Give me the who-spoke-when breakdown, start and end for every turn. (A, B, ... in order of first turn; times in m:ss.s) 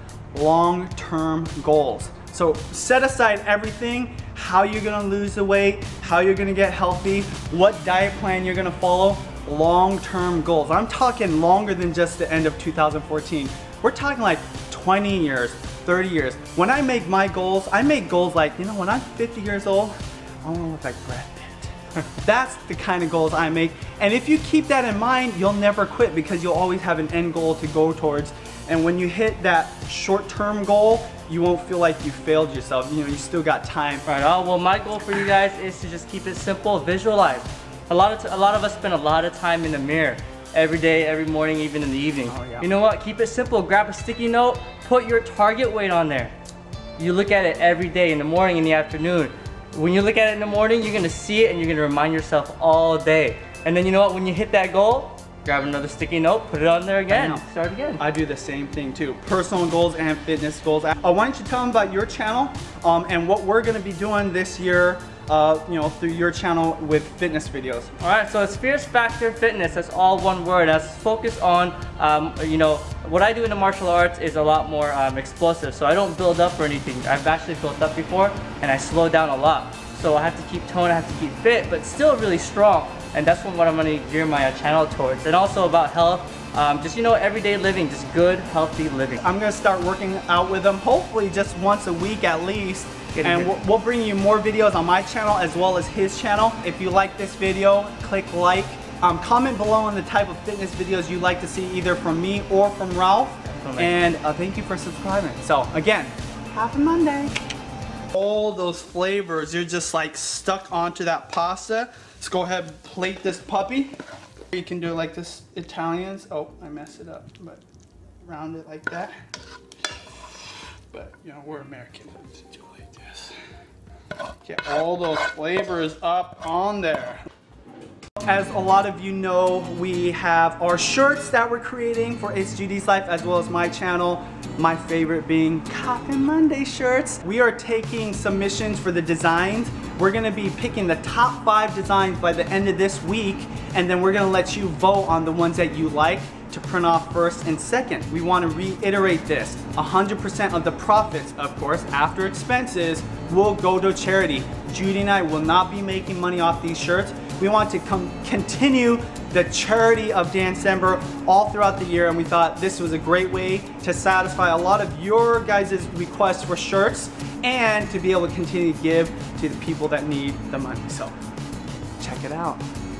0:00.3-0:34.0 A
0:34.0-0:46.3 B
0:42.3-0:42.7 A
0:47.0-0:58.0 B
0:57.1-0:57.4 A
0:58.0-1:08.0 A
1:08.0-1:29.2 B
1:29.2-1:47.4 A
1:33.1-1:33.5 B
1:43.5-1:44.0 B
1:48.1-1:53.9 A
1:54.5-1:57.6 A
1:58.2-1:59.1 A
2:00.9-2:03.4 A
2:04.4-2:07.2 A
2:08.2-2:51.1 A
2:52.0-2:52.6 A